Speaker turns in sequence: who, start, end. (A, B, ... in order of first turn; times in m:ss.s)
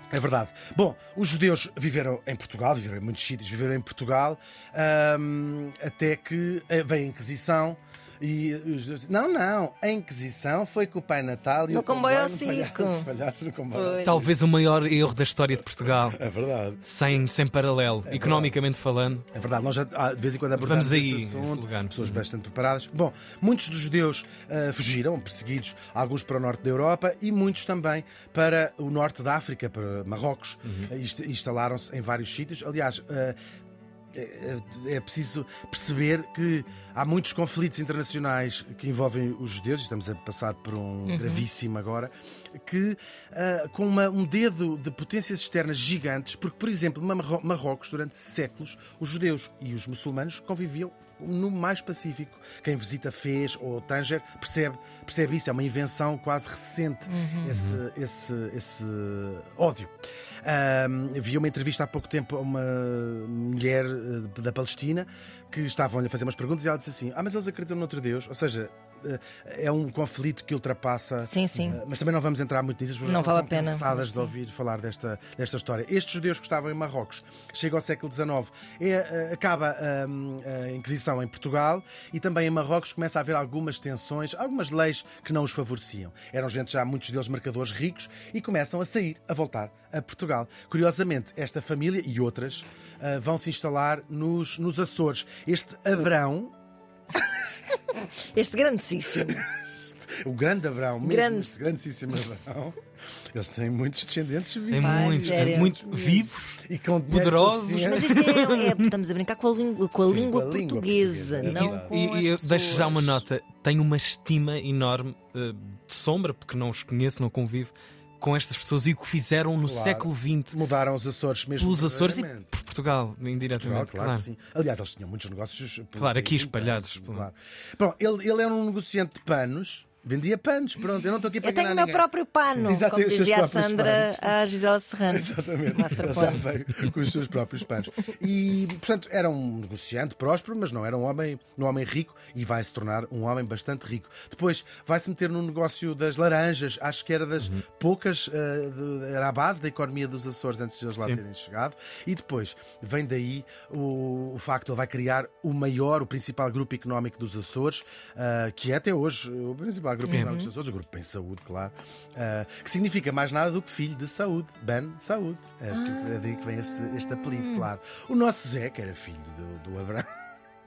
0:00.1-0:14.3 A
0:11.7-0:13.1 B
0:13.7-0:14.3 B
0:14.0-0:16.2 C
0:15.9-0:16.8 A
0:16.8-0:19.2 C
0:18.1-0:18.6 A
0:19.3-0:33.4 A
0:20.5-0:22.2 C
0:30.6-0:30.9 C
0:34.1-0:59.9 A
0:41.0-0:41.5 B
0:57.1-0:57.5 B
0:57.5-0:57.8 C
1:00.4-1:36.5 A
1:11.2-1:11.8 B
1:13.0-1:14.3 B
1:38.3-1:39.4 B
1:39.3-1:42.8 A
1:41.0-1:41.5 B
1:43.3-1:45.8 A
1:44.7-1:48.9 C
1:44.8-1:46.3 B
1:46.6-1:48.1 A
1:47.7-1:53.2 B
1:50.0-1:52.0 A
1:51.4-2:00.6 C
1:59.6-2:02.6 A
2:01.6-2:04.3 C
2:03.4-2:12.0 A
2:06.0-2:07.3 C
2:11.4-2:16.5 B
2:12.5-2:12.8 C
2:12.6-2:14.4 A
2:15.1-2:50.1 A
2:27.4-2:27.6 C
2:40.0-2:40.5 B
2:45.7-2:46.2 B
2:47.3-2:47.7 B